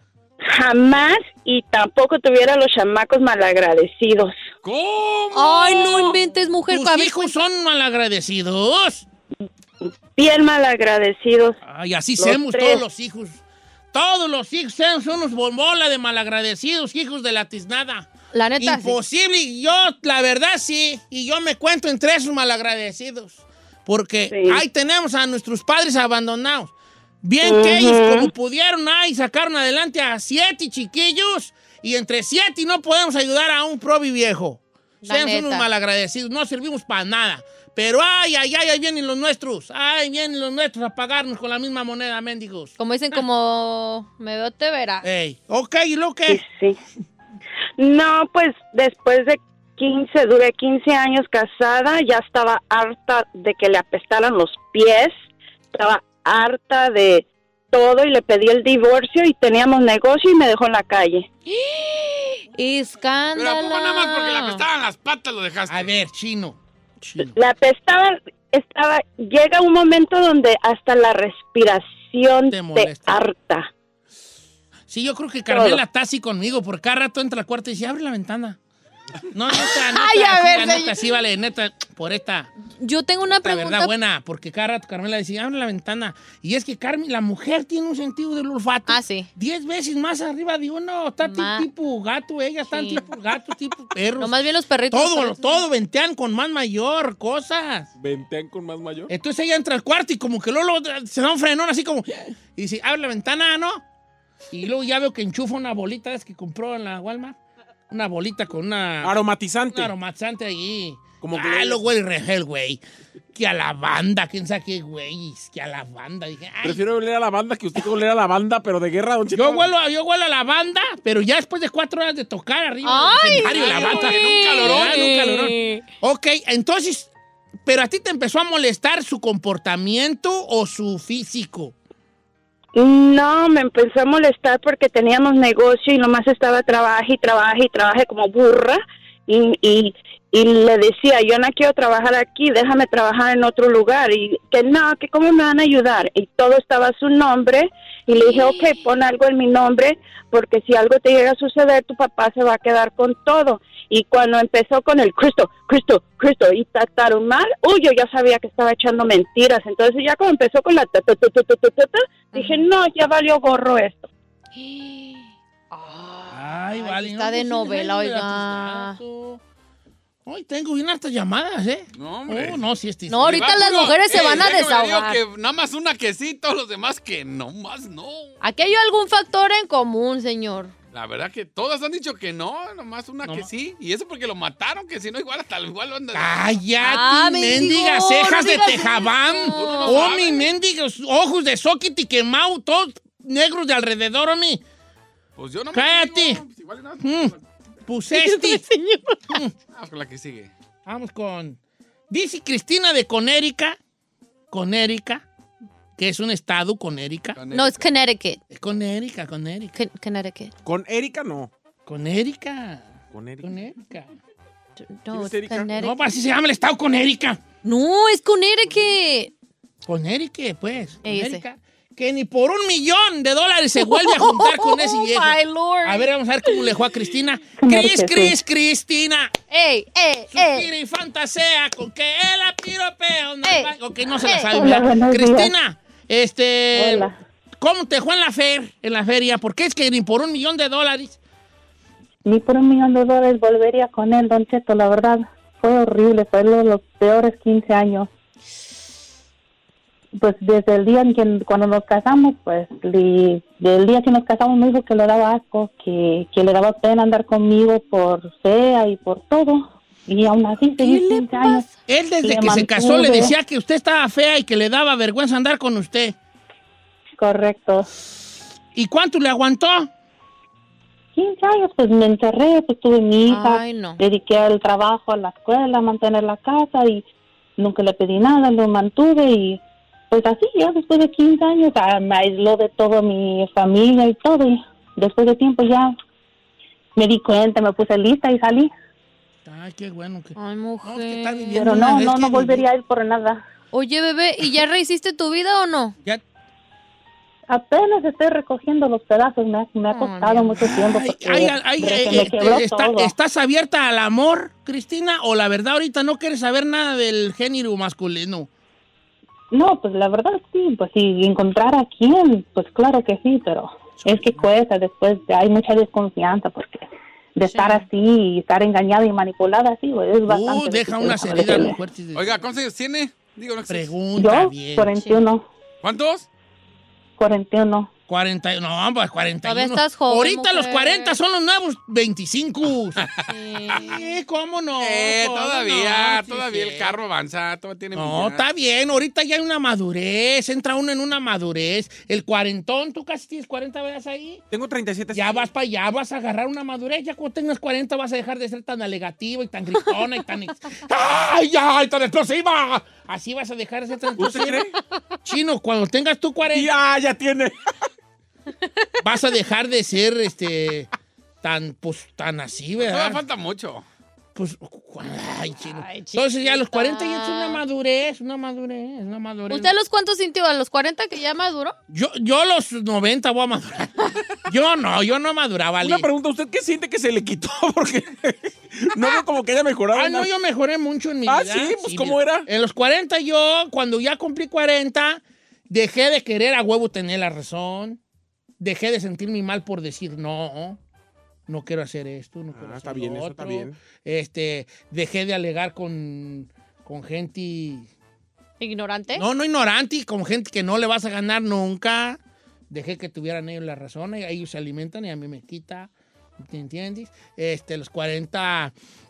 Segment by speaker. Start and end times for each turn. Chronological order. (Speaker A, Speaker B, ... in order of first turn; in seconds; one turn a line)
Speaker A: 0.4-4.3
Speaker B: 4.6-6.1
Speaker C: 5.3-7.3
Speaker D: 6.7-9.1
Speaker A: 10.2-11.6
Speaker D: 11.6-13.4
Speaker A: 12.2-12.8
Speaker D: 13.9-18.1
Speaker C: 18.3-19.0
Speaker D: 18.6-43.2
Speaker A: 24.3-24.6
Speaker A: 27.4-28.3
Speaker C: 35.0-35.7
Speaker C: 42.8-45.1
Speaker D: 45.0-46.4
Speaker A: 46.3-46.8
Speaker A: 47.8-55.1
Speaker A: 55.7-61.3
Speaker C: 61.5-64.6
Speaker B: 63.4-65.9
Speaker D: 65.7-67.3
Speaker A: 67.2-73.7
Speaker D: 72.5-73.2
Speaker D: 74.9-78.6
Speaker A: 75.5-75.8
Speaker D: 79.3-82.5
Speaker C: 79.5-81.0
Speaker C: 82.8-83.9
Speaker D: 83.4-94.4
Speaker C: 88.9-89.3
Speaker C: 91.2-91.7
Speaker C: 92.7-93.1
Speaker C: 94.2-95.7
Speaker D: 94.9-97.9
Speaker E: 98.0-99.1
Speaker D: 99.1-103.8
Speaker D: 104.5-107.4
Speaker D: 107.9-109.2
Speaker E: 109.0-109.9
Speaker D: 109.7-112.8
Speaker E: 111.2-111.8
Speaker D: 113.3-116.8
Speaker E: 116.6-119.7
Speaker D: 119.3-127.1
Speaker C: 122.8-125.8
Speaker B: 123.4-124.9
Speaker E: 124.9-125.3
Speaker D: 127.7-131.8
Speaker A: 132.8-164.1
Speaker C: 148.2-148.8
Speaker C: 162.3-162.7
Speaker C: 164.5-169.0
Speaker D: 166.3-169.4
Speaker D: 170.2-173.6
Speaker B: 171.9-172.6
Speaker C: 173.1-175.2
Speaker B: 173.3-178.3
Speaker C: 178.4-180.7
Speaker B: 180.9-186.4
Speaker D: 183.2-183.5
Speaker D: 186.1-194.6
Speaker C: 186.8-190.1
Speaker B: 189.5-190.4
Speaker B: 195.4-197.4
Speaker D: 195.7-196.4
Speaker D: 197.0-197.3
Speaker D: 197.9-198.7
Speaker C: 198.2-199.2
Speaker B: 199.7-200.5
Speaker D: 200.9-201.6
Speaker D: 202.1-203.8
Speaker D: 204.5-205.2
Speaker D: 206.0-207.4
Speaker B: 207.4-207.8
Speaker C: 207.5-208.4
Speaker D: 208.5-209.8
Speaker C: 209.8-210.5
Speaker E: 210.7-211.5
Speaker D: 211.9-214.1
Speaker E: 213.1-213.5
Speaker C: 215.0-216.0
Speaker E: 215.1-215.7
Speaker D: 215.8-217.4
Speaker C: 217.6-219.3
Speaker D: 219.9-229.3
Speaker C: 221.0-221.4
Speaker C: 223.8-226.6
Speaker F: 227.6-228.4
Speaker C: 229.5-230.7
Speaker D: 230.3-241.2
Speaker C: 233.4-234.7
Speaker F: 234.5-235.5
Speaker F: 236.7-237.2
Speaker F: 242.2-248.1
Speaker F: 250.2-261.7
Speaker C: 260.8-261.7
Speaker D: 261.9-266.2
Speaker F: 262.2-263.4
Speaker F: 267.2-267.9
Speaker D: 268.8-269.9
Speaker F: 271.1-277.1
Speaker C: 273.3-274.0
Speaker F: 277.6-285.9
Speaker F: 287.0-288.7
Speaker D: 289.4-292.7
Speaker C: 290.4-291.7
Speaker F: 291.5-293.4
Speaker C: 293.7-296.0
Speaker F: 297.5-303.1
Speaker C: 299.9-300.6
Speaker D: 300.6-308.5
Speaker F: 309.5-321.8
Speaker D: 314.0-314.4
Speaker C: 317.5-317.9
Speaker D: 320.3-322.5
Speaker B: 322.1-324.0
Speaker D: 323.7-325.0
Speaker F: 324.2-325.5
Speaker C: 325.0-325.2
Speaker B: 325.8-326.3
Speaker F: 327.2-327.9
Speaker D: 328.1-333.0
Speaker C: 329.4-331.2
Speaker B: 333.0-333.9
Speaker C: 333.2-334.1
Speaker D: 333.8-337.0
Speaker B: 334.8-338.4
Speaker D: 337.9-344.4
Speaker E: 344.5-345.4
Speaker D: 345.1-354.7
Speaker E: 354.2-354.7
Speaker D: 355.2-356.7
Speaker E: 356.5-357.5
Speaker D: 359.0-360.9
Speaker D: 361.4-363.2
Speaker B: 362.8-363.9
Speaker D: 364.4-369.7
Speaker C: 365.8-367.6
Speaker C: 369.5-371.8
Speaker D: 371.9-373.9
Speaker D: 374.5-376.1
Speaker E: 375.8-380.3
Speaker D: 379.9-388.0
Speaker E: 381.3-382.5
Speaker D: 388.6-390.8
Speaker D: 391.5-397.9
Speaker E: 392.5-393.8
Speaker C: 398.6-399.2
Speaker D: 399.1-402.2
Speaker D: 402.7-408.7